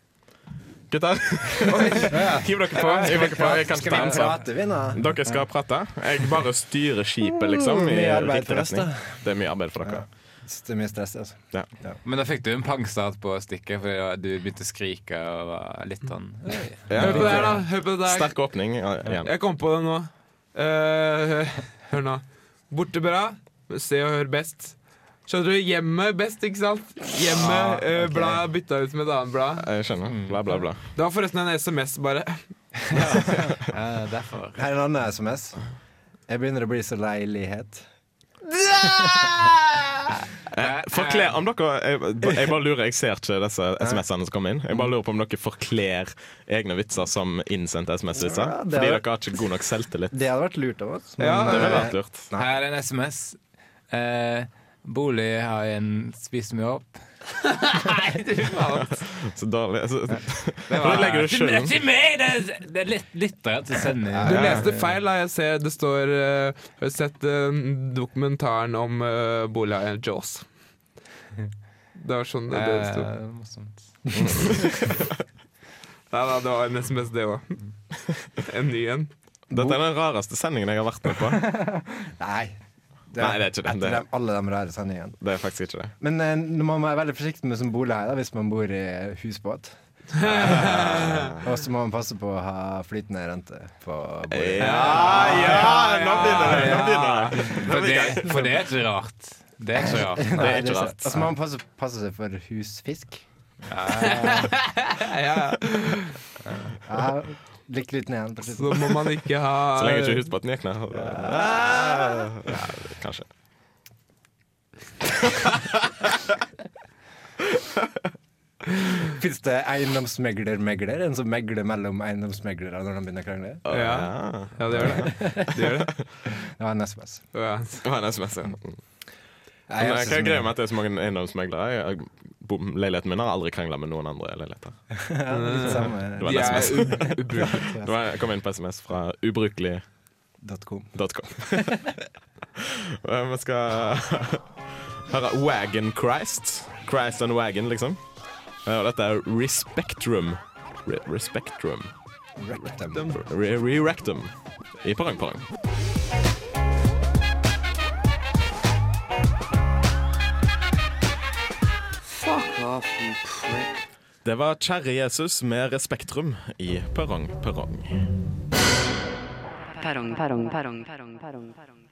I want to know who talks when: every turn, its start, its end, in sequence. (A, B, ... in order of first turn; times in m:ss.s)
0:00.9-0:10.1 A
0:01.7-0:05.0 B
0:07.2-0:09.3 B
0:09.8-0:12.0 B
0:12.0-0:17.4 C
0:16.9-0:19.3 A
0:17.0-0:18.5 D
0:17.1-0:17.6 B
0:19.1-0:24.8 D
0:25.3-0:29.7 D
0:27.3-0:28.4 B
0:29.6-0:30.8 A
0:30.1-0:30.4 C
0:31.0-0:32.4 D
0:32.9-0:34.6 C
0:34.6-0:35.6 B
0:36.3-0:37.9 B
0:38.5-0:50.2 A
0:38.8-0:39.5 B
0:40.6-0:41.4 C
0:48.1-0:49.4 B
0:50.1-0:52.5 B
0:51.2-0:51.9 D
0:51.4-0:52.3 A
0:52.4-0:53.4 C
0:53.9-0:57.0 C
0:57.4-0:59.0 D
0:59.0-1:01.8 A
1:00.7-1:04.6 C
1:00.7-1:01.1 D
1:04.1-1:04.7 B
1:04.2-1:10.5 D
1:04.3-1:04.7 A
1:12.0-1:13.1 D
1:12.5-1:13.9 C
1:14.1-1:15.1 A
1:16.1-1:17.6 D
1:18.4-1:19.1 D
1:19.5-1:19.8 B
1:19.5-1:21.5 A
1:21.1-1:22.6 B
1:23.1-1:25.2 B
1:23.2-1:24.0 A
1:25.2-1:25.9 A
1:26.0-1:35.5 B
1:30.2-1:31.3 D
1:30.2-1:31.4 A
1:34.3-1:38.4 A
1:34.6-1:36.9 D
1:34.7-1:35.7 C
1:36.2-1:40.6 C
1:39.9-1:43.2 B
1:40.3-1:41.2 A
1:43.7-1:44.5 C
1:43.9-1:44.5 B
1:44.1-1:46.2 D
1:46.4-1:46.7 C
1:46.8-1:49.0 B
1:48.5-1:50.3 D
1:49.7-1:53.3 A
1:50.9-1:52.7 B
1:59.1-2:03.6 B
2:03.6-2:05.9 A
2:03.7-2:05.9 D
2:04.7-2:05.5 B
2:06.4-2:07.2 B
2:07.3-2:07.8 D
2:07.8-2:08.8 A
2:09.7-2:10.5 B
2:09.8-2:14.8 A
2:15.0-2:17.9 B
2:15.3-2:17.8 D
2:15.6-2:19.8 A
2:20.4-2:21.0 B
2:21.0-2:22.0 A
2:21.5-2:21.8 B
2:22.6-2:24.6 A
2:25.1-2:28.0 A
2:28.6-2:31.9 A
2:32.4-2:33.1 B
2:33.1-2:35.5 A
2:42.2-2:43.6 D
2:44.2-2:48.1 A
2:49.8-2:51.8 E